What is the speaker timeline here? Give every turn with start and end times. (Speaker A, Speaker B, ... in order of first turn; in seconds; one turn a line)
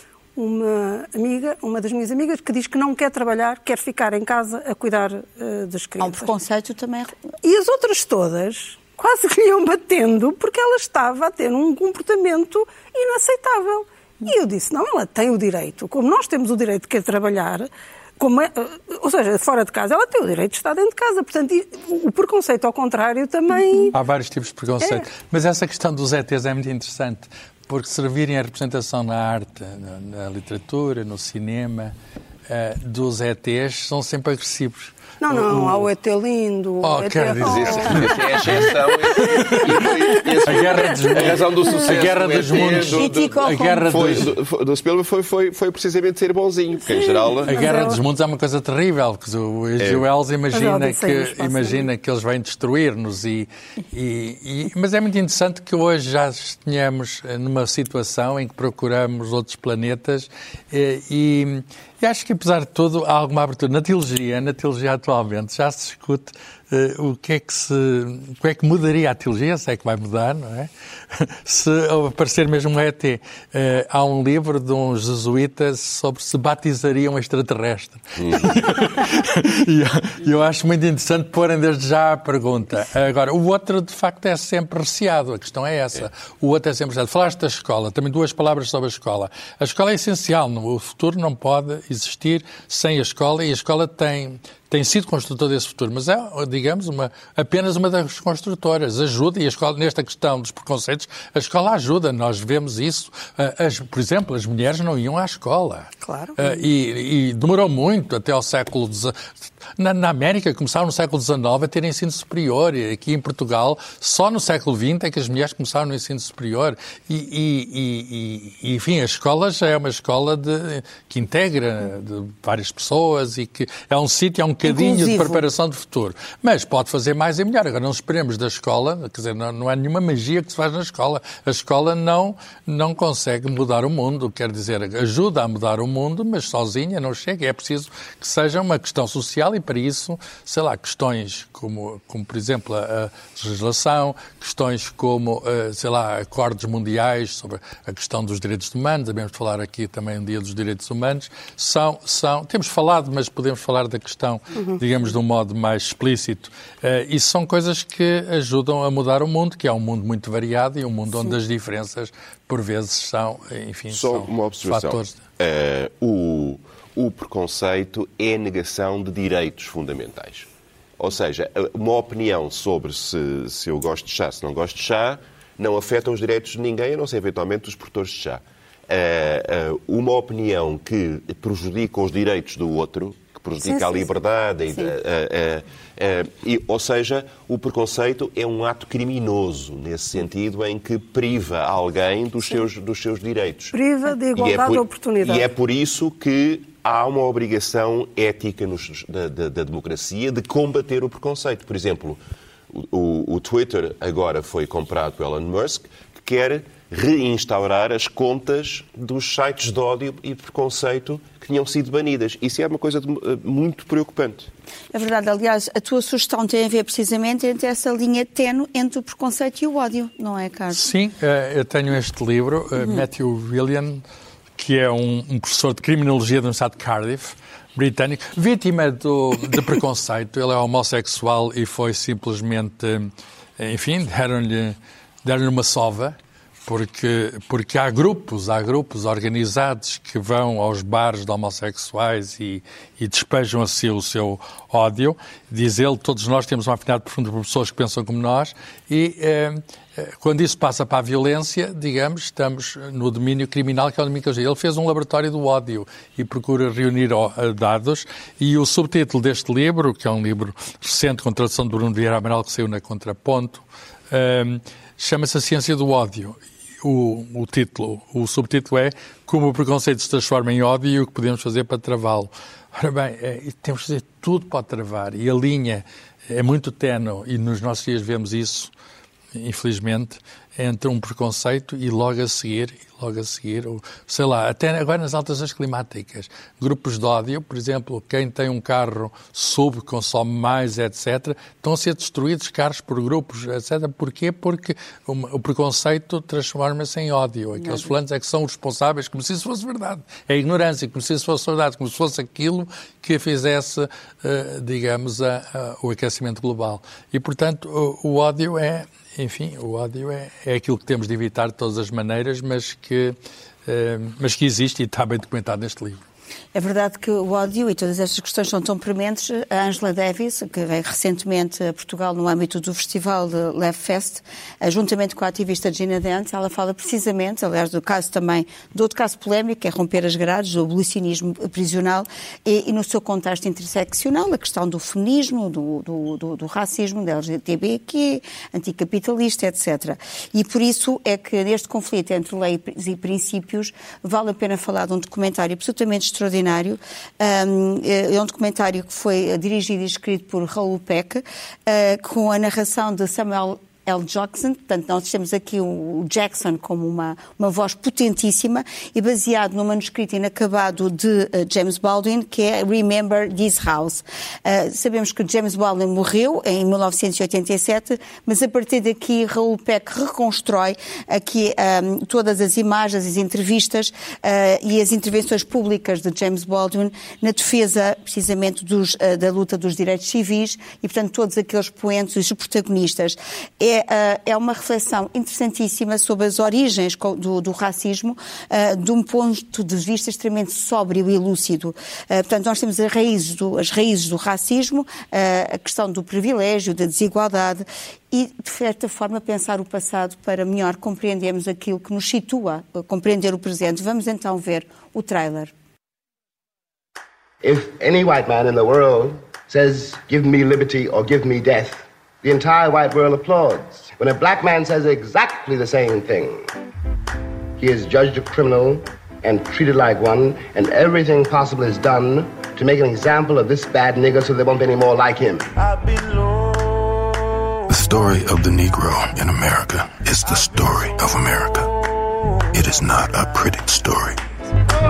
Speaker A: 0.3-6.3
Speaker B: 6.0-7.2
Speaker A: 7.4-23.9
Speaker C: 23.9-31.9
Speaker C: 32.5-35.9
Speaker A: 35.2-38.4
Speaker C: 36.8-39.6
Speaker D: 37.4-47.6
Speaker C: 40.5-44.3
Speaker B: 42.9-43.9
Speaker C: 47.5-165.2
Speaker A: 47.5-48.0
Speaker D: 49.8-50.0
Speaker A: 50.5-51.9
Speaker D: 78.2-78.5
Speaker A: 106.0-106.6
Speaker B: 124.6-125.5
Speaker D: 163.9-193.7
Speaker A: 183.6-184.1
Speaker A: 193.7-195.4
Speaker D: 194.3-202.2
Speaker D: 202.7-214.5
Speaker B: 214.9-220.9
Speaker C: 220.7-224.0
Speaker C: 224.6-278.7
Speaker C: 279.3-316.0
Speaker B: 297.5-297.9
Speaker B: 316.5-405.5
Speaker E: 407.4-416.5
Speaker E: 417.6-425.5
Speaker F: 427.7-431.7
Speaker F: 432.5-434.2